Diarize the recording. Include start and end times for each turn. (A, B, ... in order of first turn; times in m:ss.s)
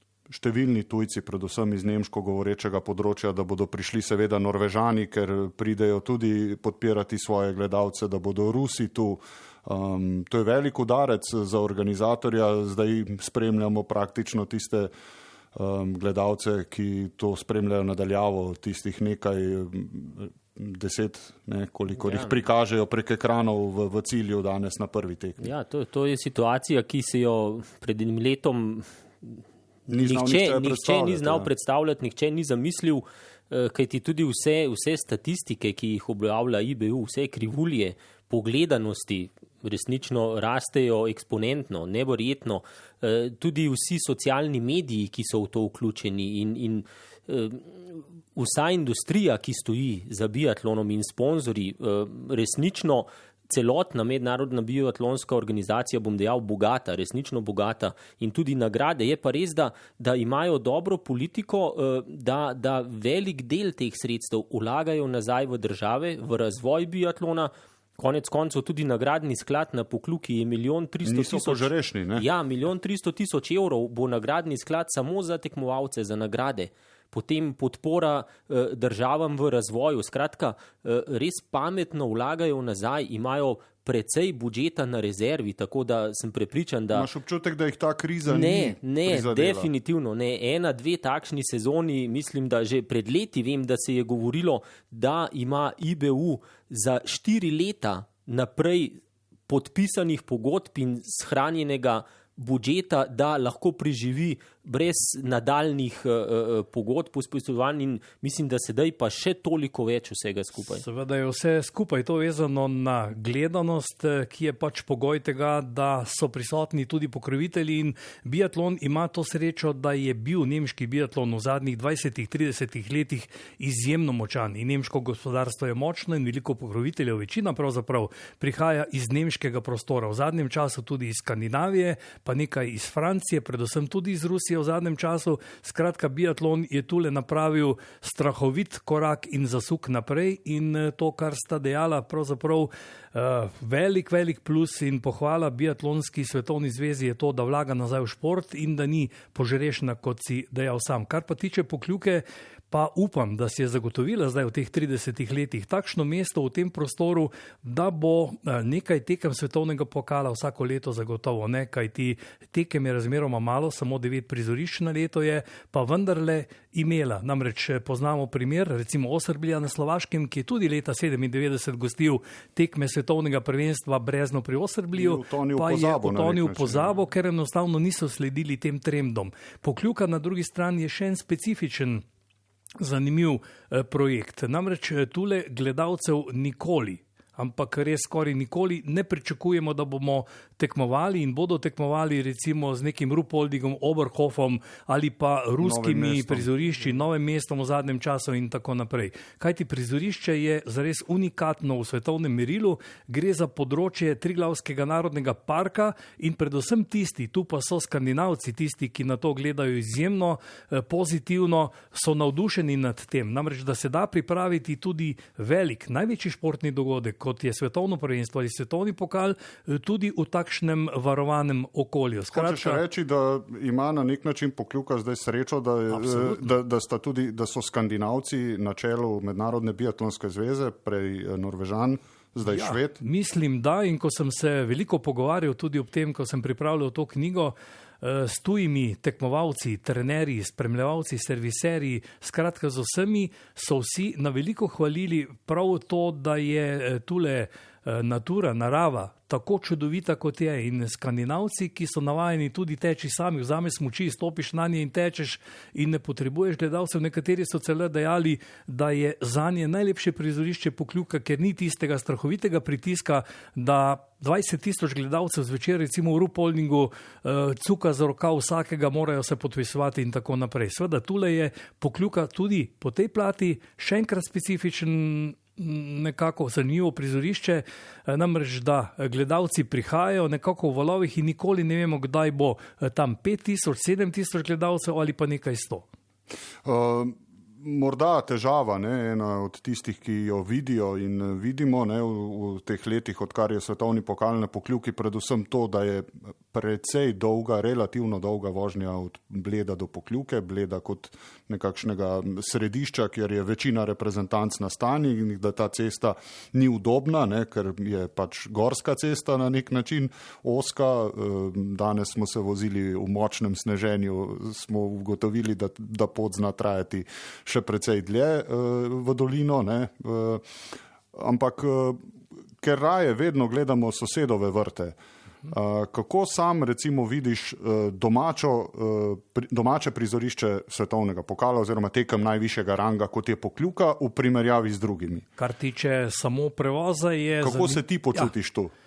0:00.3-0:14.9 A
0:15.5-0:25.5 A
0:22.0-0:22.4 B
0:25.4-0:29.4 B
0:29.9-0:31.5 A
0:30.0-1:27.1 B
1:11.0-1:12.2 A
1:26.9-1:29.7 A
1:28.3-1:39.0 B
1:39.5-1:50.8 B
1:50.6-3:02.0 C
2:54.9-2:56.9 A
3:02.8-3:42.8 C
3:15.6-3:16.5 A
3:42.3-3:53.0 A
3:45.9-3:46.5 C
3:52.4-4:45.8 C
4:46.6-5:22.1 A
5:22.6-5:35.2 A
5:35.4-5:38.3 C
5:37.4-5:38.7 A